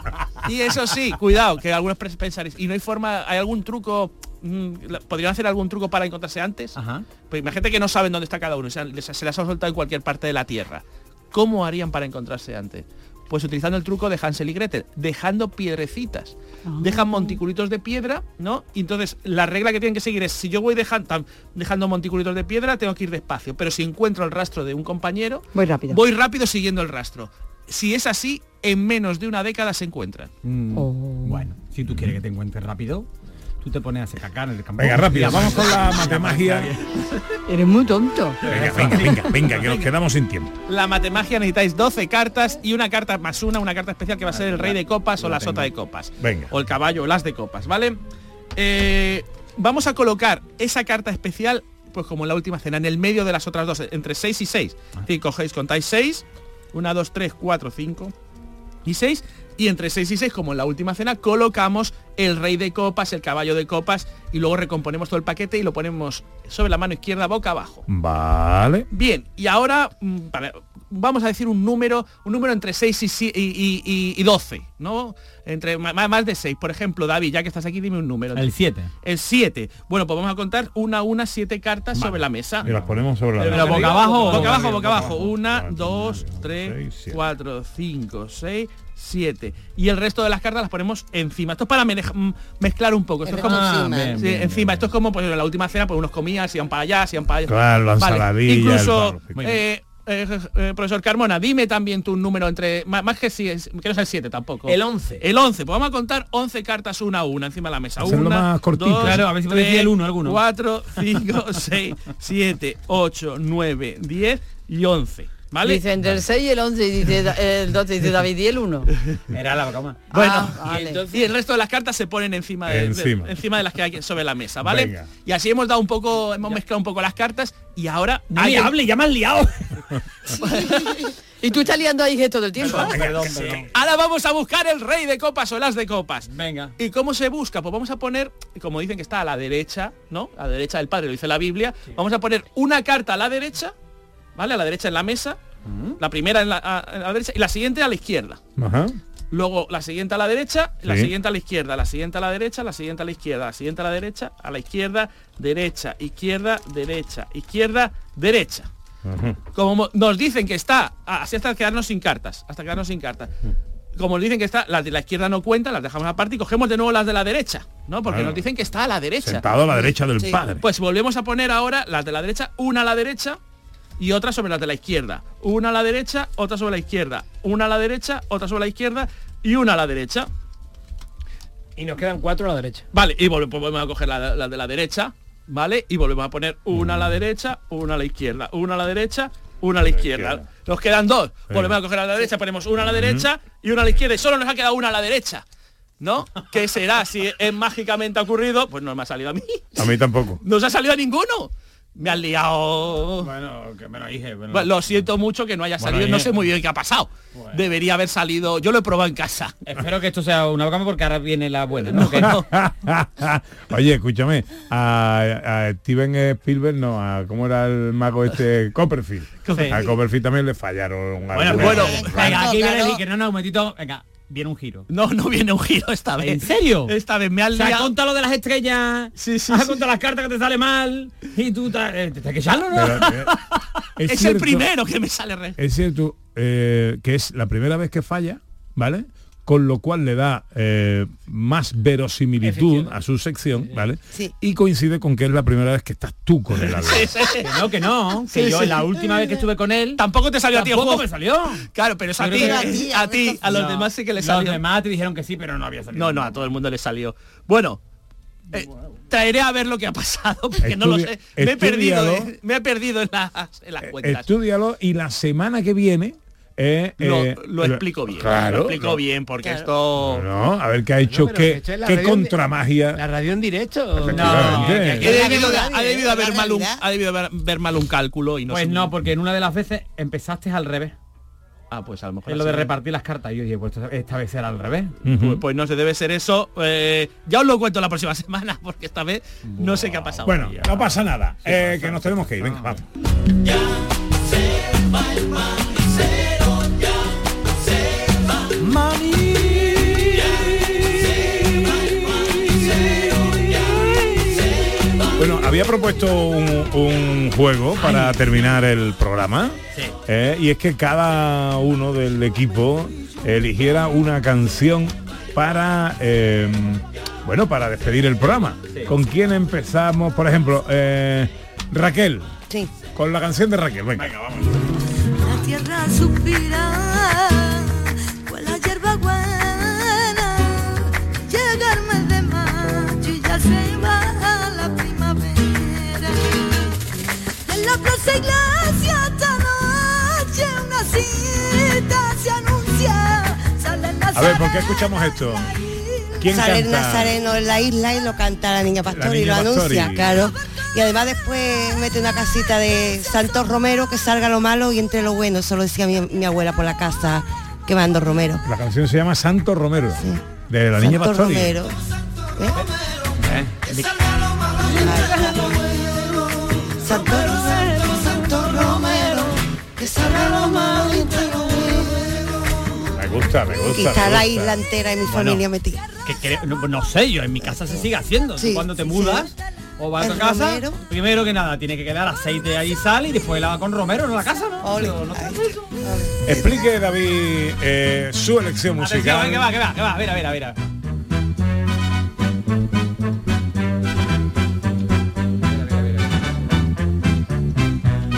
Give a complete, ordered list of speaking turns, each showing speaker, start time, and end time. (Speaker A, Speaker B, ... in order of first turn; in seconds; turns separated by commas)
Speaker A: 0.4-30.3, Speaker B: 6.8-7.1, Speaker C: 16.7-17.4, Speaker C: 25.5-26.0, Speaker B: 30.4-33.1, Speaker C: 30.8-31.4, Speaker B: 33.6-36.8, Speaker D: 34.8-36.8, Speaker C: 37.5-38.4, Speaker B: 38.4-39.5, Speaker D: 38.5-40.6, Speaker A: 40.7-48.0, Speaker B: 44.3-45.7, Speaker D: 46.2-46.5, Speaker A: 48.6-58.1, Speaker A: 58.9-67.8, Speaker D: 67.9-68.9, Speaker A: 68.9-82.7, Speaker B: 78.3-78.9, Speaker B: 82.0-85.2, Speaker D: 82.6-87.2, Speaker A: 83.4-115.9, Speaker E: 93.2-94.2, Speaker B: 93.3-94.6, Speaker D: 97.5-99.6, Speaker F: 104.7-105.2, Speaker D: 108.0-109.3, Speaker B: 109.0-110.4, Speaker C: 115.6-118.9, Speaker B: 119.3-120.0, Speaker A: 120.1-128.8, Speaker C: 120.1-121.0, Speaker F: 120.7-121.3, Speaker D: 122.7-123.4, Speaker D: 124.6-125.1, Speaker B: 128.3-129.8, Speaker A: 130.4-131.0, Speaker C: 130.4-133.0, Speaker B: 132.6-133.7, Speaker D: 132.9-133.3, Speaker A: 133.7-143.7, Speaker B: 136.3-136.8, Speaker A: 144.4-145.4, Speaker B: 145.6-146.0, Speaker A: 146.0-148.4, Speaker D: 148.6-149.0, Speaker A: 149.3-158.7, Speaker D: 150.8-151.1, Speaker D: 159.1-159.4, Speaker A: 159.5-163.3, Speaker A: 164.0-169.5, Speaker D: 168.1-168.4, Speaker D: 169.2-170.6, Speaker A: 170.6-173.4, Speaker A: 174.0-180.3, Speaker F: 181.8-182.9, Speaker A: 182.9-195.4, Speaker D: 186.8-187.1, Speaker D: 189.9-190.5, Speaker D: 191.5-191.8, Speaker D: 192.8-193.3, Speaker A: 196.0-199.9, Speaker D: 199.8-200.4, Speaker A: 200.4-203.3, Speaker B: 203.2-205.0, Speaker A: 204.5-209.6, Speaker B: 205.8-206.3, Speaker D: 205.9-206.2, Speaker B: 207.3-207.6, Speaker B: 209.6-212.4, Speaker A: 211.9-212.5, Speaker D: 212.2-222.5, Speaker A: 219.4-220.0, Speaker B: 219.5-219.8, Speaker B: 221.3-224.9, Speaker E: 221.5-223.0, Speaker A: 221.6-222.1, Speaker A: 224.9-227.9, Speaker B: 226.2-227.0, Speaker B: 227.5-233.6, Speaker A: 229.2-229.8, Speaker D: 232.7-233.4, Speaker D: 234.0-234.7, Speaker A: 234.0-235.6, Speaker D: 235.6-247.3, Speaker F: 242.4-243.0, Speaker A: 246.8-247.6, Speaker B: 247.3-251.7, Speaker A: 248.3-249.2, Speaker A: 250.0-251.1, Speaker A: 251.7-254.6, Speaker B: 252.2-252.8, Speaker E: 252.3-253.7, Speaker B: 253.4-256.5, Speaker A: 255.9-257.8, Speaker A: 258.5-264.3, Speaker D: 260.6-262.3, Speaker D: 263.8-269.0, Speaker A: 267.0-270.3, Speaker E: 269.4-269.7, Speaker D: 270.0-273.0, Speaker F: 271.0-272.4, Speaker F: 272.9-275.2, Speaker D: 274.0-275.1, Speaker B: 274.1-275.3, Speaker E: 275.0-276.8, Speaker A: 275.0-278.9, Speaker B: 278.5-280.9, Speaker A: 281.7-282.7, Speaker B: 282.3-285.0, Speaker D: 285.1-285.4, Speaker A: 285.1-290.9, Speaker B: 289.4-290.0, Speaker D: 290.2-292.8, Speaker B: 291.4-292.8, Speaker B: 298.7-300.0, Speaker D: 305.2-322.3, Speaker B: 307.9-308.1, Speaker D: 322.9-324.1, Speaker B: 323.9-324.7, Speaker G: 325.2-336.8, Speaker G: 337.5-346.3, Speaker D: 344.1-345.5, Speaker D: 346.2-347.2, Speaker E: 346.3-358.4, Speaker D: 348.9-350.3, Speaker D: 358.4-361.6, Speaker E: 360.0-361.8, Speaker E: 362.4-362.6, Speaker B: 363.2-363.9, Speaker E: 364.6-372.9, Speaker G: 364.8-365.6, Speaker G: 366.9-369.0, Speaker D: 372.9-374.6, Speaker E: 373.7-375.9, Speaker B: 375.0-375.4, Speaker B: 376.0-385.6, Speaker E: 377.4-379.3, Speaker E: 380.0-380.8, Speaker E: 384.6-386.7, Speaker D: 386.2-389.5, Speaker B: 388.8-390.6, Speaker B: 395.5-396.1